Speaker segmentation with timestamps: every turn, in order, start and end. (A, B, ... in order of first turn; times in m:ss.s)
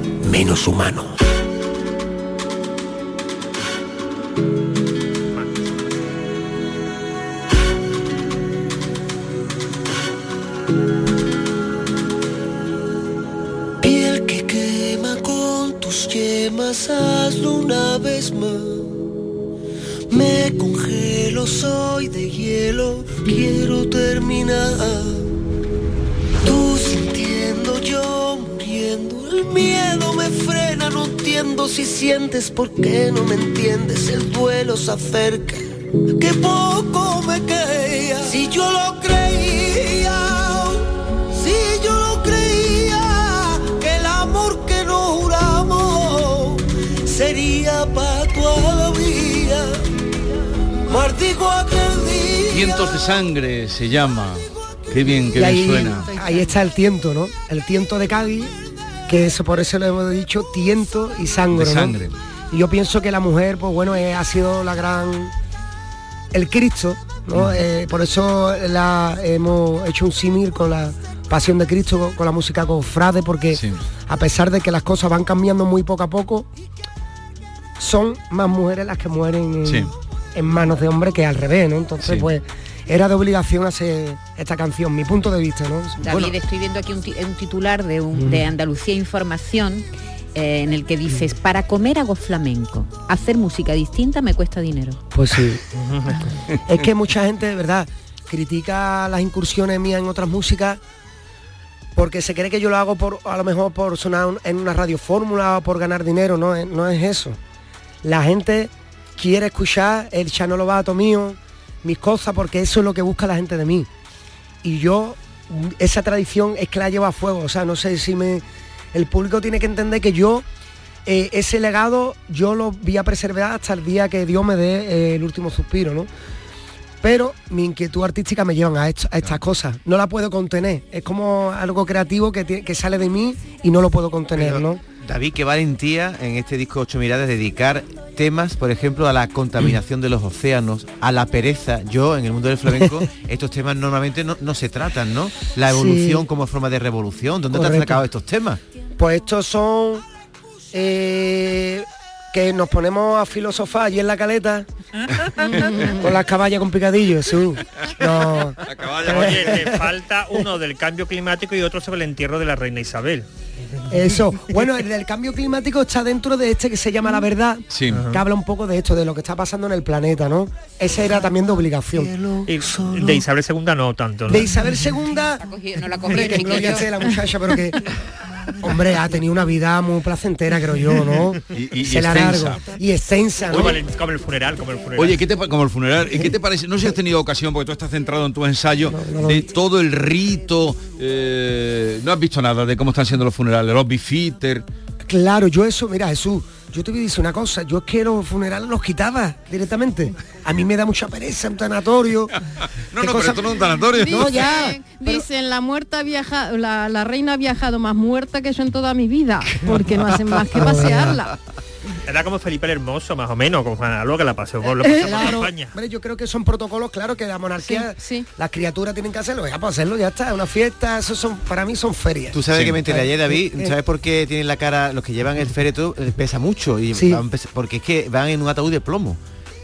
0:00.2-0:01.1 A
0:13.8-0:19.0 A
0:20.1-0:25.3 A
0:26.4-0:49.8 A
0:50.8-0:53.0 A
0:52.5-0:56.1 B
0:55.3-0:58.5 C
0:59.1-1:05.3 C
1:01.5-1:02.1 B
1:06.3-1:16.5 C
1:13.5-1:13.8 B
1:17.8-1:26.2 C
1:19.6-1:19.9 B
1:22.0-1:22.3 B
1:26.0-1:35.0 D
1:28.1-1:28.5 C
1:35.1-1:40.8 C
1:35.8-1:36.2 E
1:42.0-1:47.4 C
1:48.0-1:53.9 C
1:54.6-2:00.4 C
2:01.0-2:06.1 C
2:07.0-2:14.8 C
2:14.4-2:28.6 F
2:25.7-2:26.2 C
2:27.5-2:28.0 C
2:29.0-2:30.0 C
2:30.7-2:34.7 C
2:35.2-2:39.9 C
2:35.5-2:36.0 G
2:38.1-2:39.7 B
2:39.0-2:43.3 E
2:43.9-2:52.1 C
2:47.7-2:48.0 B
2:47.9-2:48.2 E
2:51.0-2:53.2 A
2:52.4-2:54.4 E
2:54.3-2:55.4 C
2:55.4-2:57.1 D
2:56.0-2:57.8 C
2:58.6-3:03.8 C
3:01.5-3:02.6 B
3:03.5-3:05.2 E
3:03.5-3:03.8 B
3:05.0-3:14.6 B
3:08.8-3:09.4 C
3:15.0-3:22.3 C
3:22.9-3:24.8 B
3:23.0-3:25.2 C
3:24.0-3:31.3 G
3:29.6-3:31.2 C
3:32.0-3:35.8 E
3:34.8-3:35.1 G
3:35.0-3:43.7 C
3:37.6-3:38.3 G
3:42.3-3:49.2 F
3:46.9-3:47.2 C